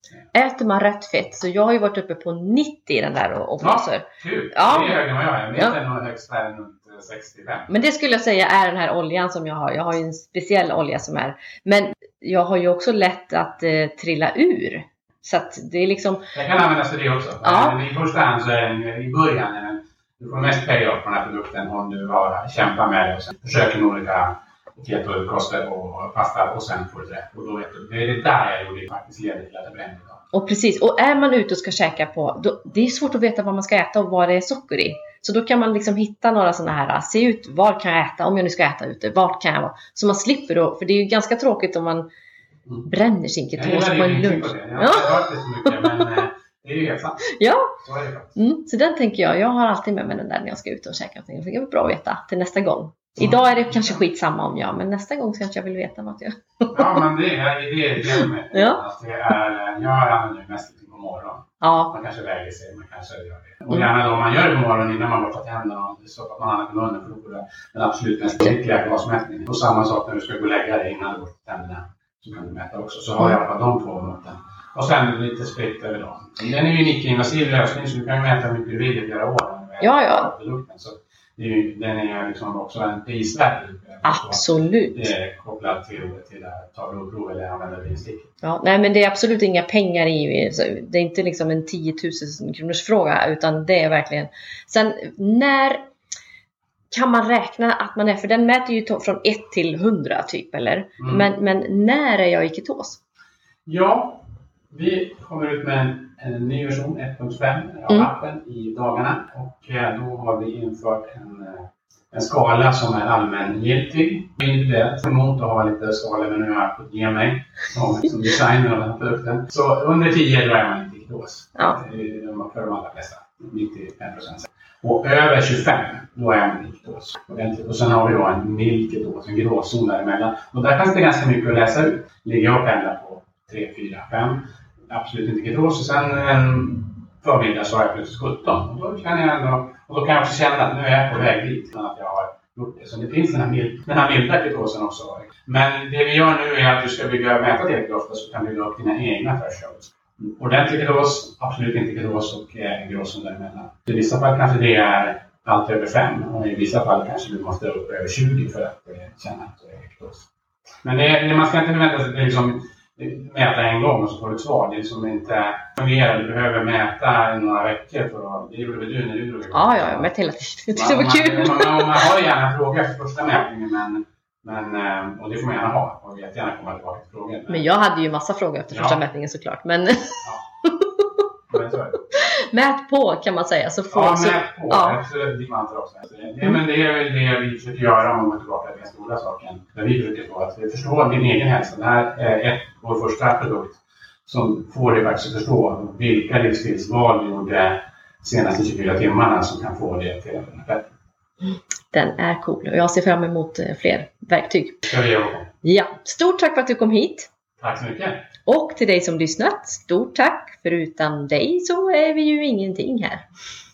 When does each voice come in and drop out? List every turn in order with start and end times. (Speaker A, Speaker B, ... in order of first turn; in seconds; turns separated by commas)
Speaker A: 0.3-5.0, Speaker B: 3.6-7.7, Speaker A: 7.7-16.3, Speaker B: 16.3-30.2, Speaker A: 17.4-17.8, Speaker A: 30.3-42.1, Speaker A: 42.9-45.8, Speaker B: 43.6-48.4, Speaker A: 47.3-47.7, Speaker A: 48.4-57.0, Speaker B: 53.2-54.0, Speaker B: 56.7-88.3, Speaker A: 58.5-58.8, Speaker A: 61.6-61.9, Speaker A: 79.8-80.3, Speaker A: 84.0-85.1, Speaker A: 88.4-95.9, Speaker A: 96.9-103.0, Speaker B: 101.0-101.2, Speaker B: 103.7-160.3, Speaker B: 160.8-170.1, Speaker A: 169.5-171.9, Speaker B: 170.7-177.7, Speaker A: 177.5-181.1, Speaker B: 178.7-179.0, Speaker B: 181.5-182.0, Speaker A: 182.1-185.0, Speaker B: 183.9-200.9, Speaker A: 201.9-204.9, Speaker B: 204.9-205.5, Speaker A: 205.6-207.3, Speaker B: 207.6-208.2, Speaker A: 208.5-213.2